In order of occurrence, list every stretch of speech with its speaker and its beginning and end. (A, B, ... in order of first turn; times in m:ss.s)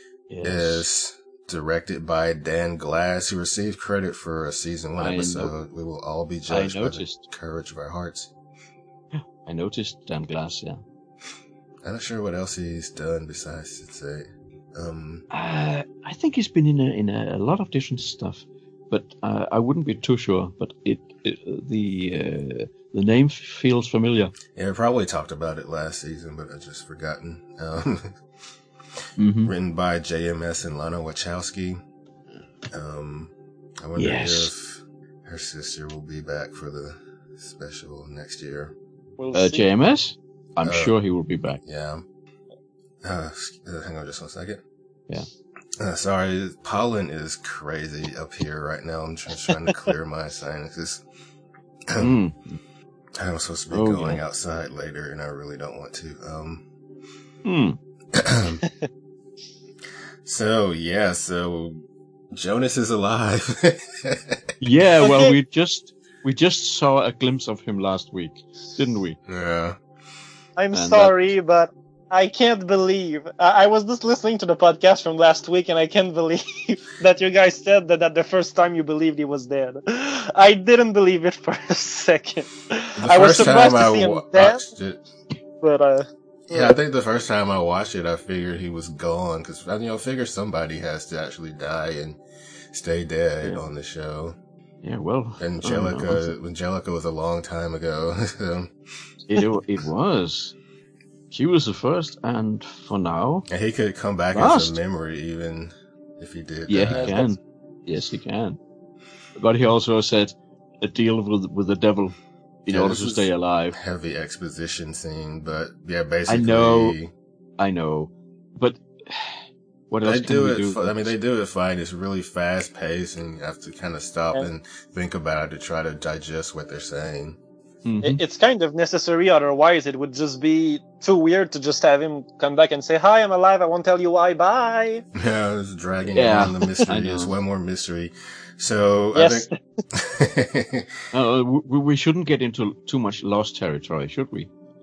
0:00.3-0:00.8 A
0:00.4-0:08.3 B
0:05.0-0:05.5 A
0:06.5-0:07.2 A
0:09.1-0:10.8 A
0:11.8-0:15.2 B
0:15.3-0:24.3 A
0:24.6-0:28.2 B
0:29.2-0:29.5 A
0:29.4-0:31.8 B
0:32.7-0:33.3 B
0:33.8-0:38.8 B
0:34.0-0:34.5 A
0:39.2-0:39.6 C
0:39.3-0:41.6 A
0:40.6-0:41.0 B
0:41.6-0:42.0 B
0:43.0-0:44.6 B
0:45.8-0:51.0 B
0:51.9-0:52.2 B
0:52.0-0:52.6 A
0:53.2-0:56.7 B
0:53.7-0:54.2 A
0:57.4-0:57.8 A
0:58.2-0:58.6 B
1:00.2-1:01.8 B
1:02.3-1:04.4 B
1:04.6-1:09.2 A
1:05.0-1:05.4 C
1:09.3-1:09.8 B
1:10.6-1:24.7 C
1:10.7-1:11.1 A
1:23.0-1:25.0 B
1:25.6-1:26.8 C
1:26.5-1:32.2 B
1:32.7-1:34.4 B
1:34.8-1:36.3 A
1:35.4-1:38.7 B
1:39.3-1:40.6 A
1:41.3-1:43.5 A
1:43.5-1:47.2 B
1:44.4-1:44.8 A
1:46.7-1:48.6 A
1:47.0-1:47.3 C
1:49.4-1:52.2 A
1:52.7-1:53.8 A
1:52.7-1:57.1 B
1:56.3-1:57.0 A
1:57.6-2:01.1 A
2:00.0-2:07.4 B
2:07.8-2:08.2 A
2:08.0-2:15.0 C
2:15.2-2:21.0 B
2:16.2-2:17.3 A
2:19.2-2:19.6 C
2:21.1-2:24.5 A